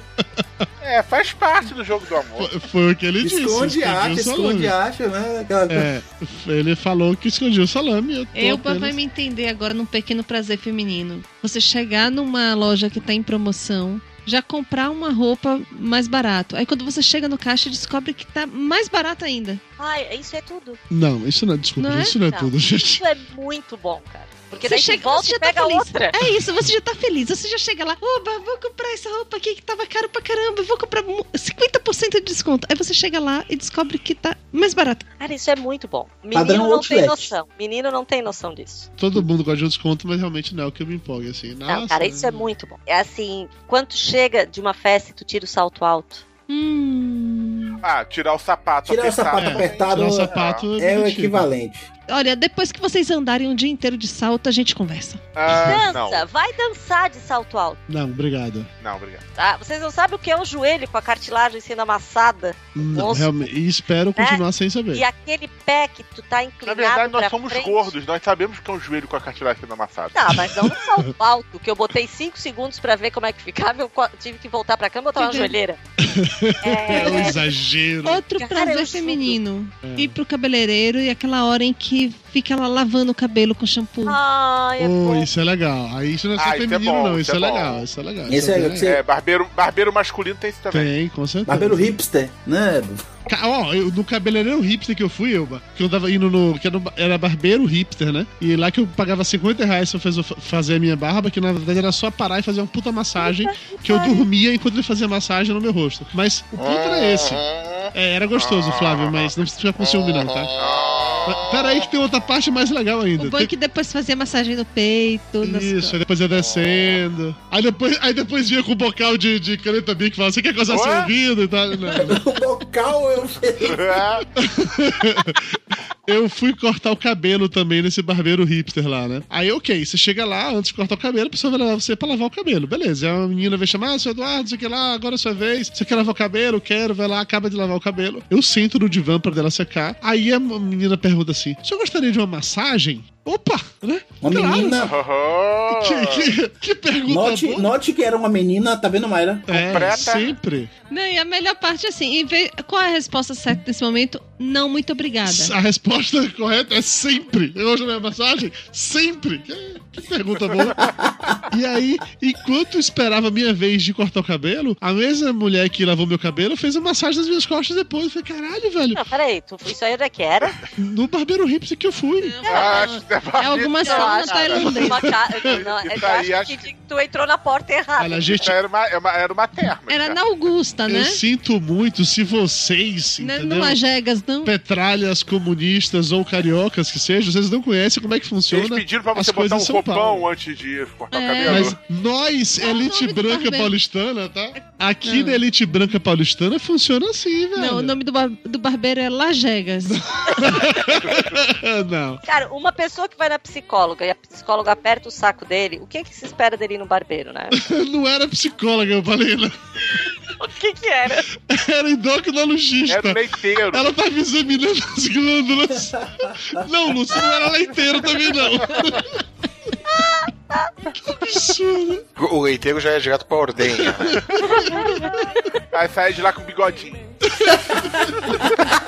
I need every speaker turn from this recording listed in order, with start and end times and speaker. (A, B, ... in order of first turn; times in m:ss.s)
0:00.2-0:00.6 A
0:00.8-0:02.5 B
0:02.4-0:04.7 A
0:03.2-0:05.9 C
0:05.7-0:09.0 A
0:08.3-0:19.6 D
0:19.8-0:20.8 E
0:20.9-0:23.0 A
0:21.8-0:22.2 D
0:22.2-0:26.2 E
0:24.6-0:35.0 D
0:35.2-0:38.9 E
0:36.3-0:37.3 C
0:39.0-0:42.5 A
0:41.7-0:46.2 E
0:46.5-0:47.8 D
0:47.8-0:50.6 B
0:48.8-0:51.9 C
0:49.4-0:51.5 A
0:52.1-0:55.2 D
0:55.4-0:56.2 B
0:55.5-0:57.8 E
0:57.9-0:58.7 A
0:58.8-0:59.2 B
0:59.4-1:03.4 E
1:02.8-1:05.0 A
1:04.2-1:04.4 E
1:04.9-1:07.9 E
1:06.6-1:10.4 B
1:10.1-1:15.8 E
1:15.2-1:15.6 D
1:16.0-1:18.2 A
1:16.6-1:17.4 E
1:18.0-1:24.2 D
1:18.4-1:19.4 E
1:19.8-1:20.1 A
1:24.0-1:25.3 E
1:24.8-1:29.0 A
1:26.4-1:27.8 B
1:28.3-1:29.0 C
1:28.8-1:30.9 B
1:30.7-1:31.9 A
1:31.4-1:33.1 C
1:33.3-1:50.5 A
1:43.3-1:43.9 E
1:46.5-1:47.9 F
1:48.4-1:49.3 B
1:50.6-1:51.6 B
1:51.2-1:53.5 A
1:53.2-1:56.0 D
1:55.4-2:02.2 A
2:00.7-2:01.1 B
2:02.0-2:04.0 C
2:03.6-2:04.2 B
2:04.4-2:24.8 A
2:24.2-2:24.9 C
2:24.8-2:26.3 B
2:25.7-2:27.7 A
2:27.1-2:30.0 C
2:29.5-2:30.7 A
2:29.6-2:30.3 B
2:30.9-2:35.5 D
2:35.2-2:40.9 A
2:41.5-2:49.0 A
2:48.9-2:50.6 E
2:50.8-2:52.4 A
2:52.2-2:55.0 D
2:52.5-2:52.8 E
2:52.5-2:54.7 B
2:53.8-2:58.5 E
2:55.4-2:56.7 B
2:58.0-2:58.5 A
2:58.4-3:00.2 B
2:59.9-3:01.2 D
3:00.9-3:03.8 A
3:03.2-3:04.5 D
3:04.4-3:10.2 A
3:08.5-3:11.8 B
3:11.1-3:11.7 D
3:11.4-3:17.9 A
3:12.6-3:13.7 D
3:15.0-3:15.4 D
3:17.6-3:20.0 D
3:19.9-3:22.2 A
3:22.2-3:27.6 E
3:27.5-3:29.5 A
3:30.4-3:31.3 E
3:31.3-3:39.1 A
3:32.9-3:33.9 B
3:40.0-3:40.7 E
3:41.0-3:42.0 A
3:42.2-3:44.2 F
3:43.7-3:45.2 A
3:44.5-3:45.0 E
3:45.7-3:47.0 B
3:47.4-3:48.4 A